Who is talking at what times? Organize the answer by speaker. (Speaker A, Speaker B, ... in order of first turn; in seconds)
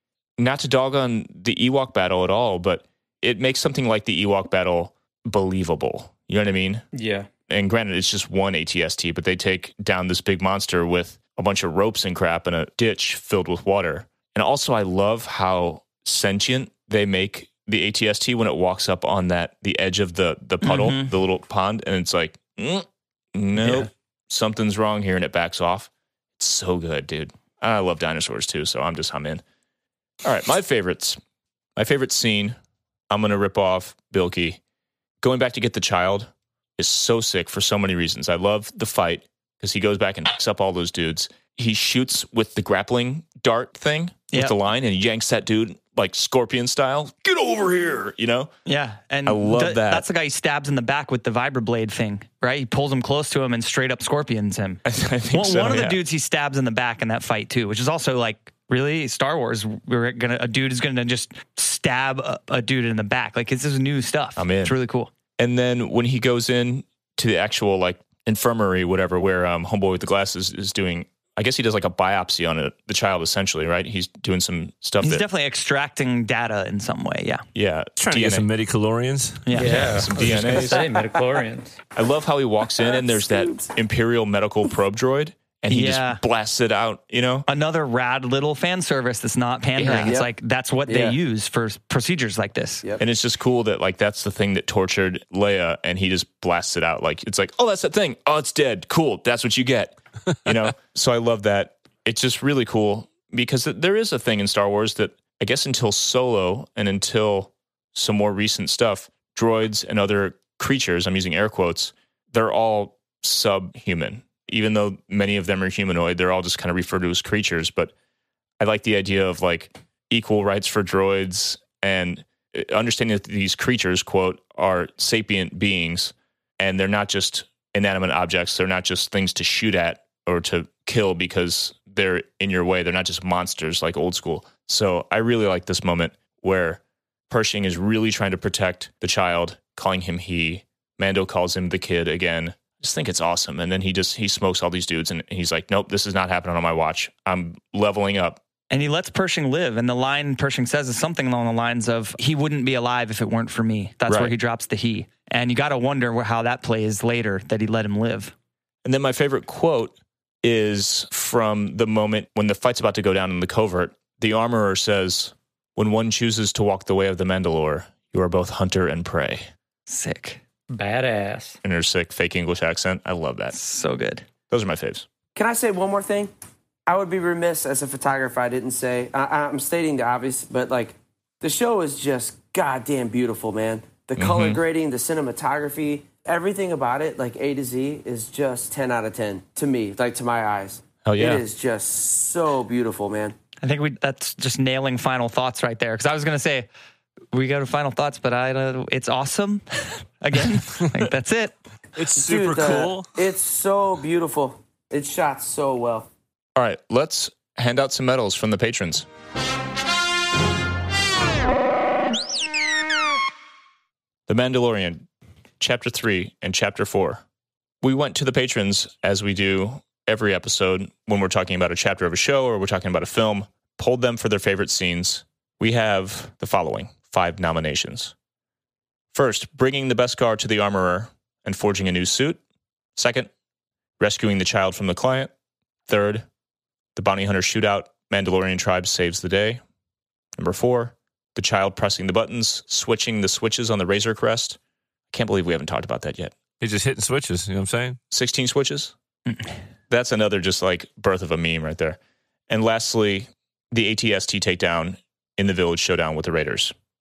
Speaker A: 0.4-6.8, 7.5-29.4, 30.2-31.2, 31.8-32.6, 33.1-34.6, 35.2-48.5, 49.2-50.0, 54.8-56.0, 64.3-64.8, 65.4-75.2, 77.5-78.5, 79.7-80.8, 81.9-87.5, 89.8-90.2, 93.0-117.9, 118.6-148.4, 154.1-154.3, 158.8-169.5, 171.6-173.5, 174.5-175.1, 184.2-184.6, 191.0-191.4, 206.5-209.1, 214.3-215.1, 215.6-217.2, 217.8-228.1, 229.1-232.4, 232.9-233.3, 234.0-235.3, 235.9-236.2, 236.9-239.6, 240.3-244.6, 245.1-246.3, 248.1-248.9, 249.9-252.0, 252.5-256.7
Speaker B: 6.9-7.3, 79.5-81.8, 170.7-171.6
Speaker C: 20.6-21.1, 23.6-23.9, 48.6-65.1, 75.0-77.4, 79.5-80.0, 85.7-86.2, 87.5-92.8, 148.7-158.3, 169.9-170.4, 173.5-174.2, 193.6-196.7, 197.3-201.5
Speaker D: 78.0-79.5, 201.9-203.1, 246.6-248.0
Speaker E: 82.8-83.7, 90.0-90.3, 90.9-91.2, 175.3-176.3, 176.9-193.3, 202.1-206.1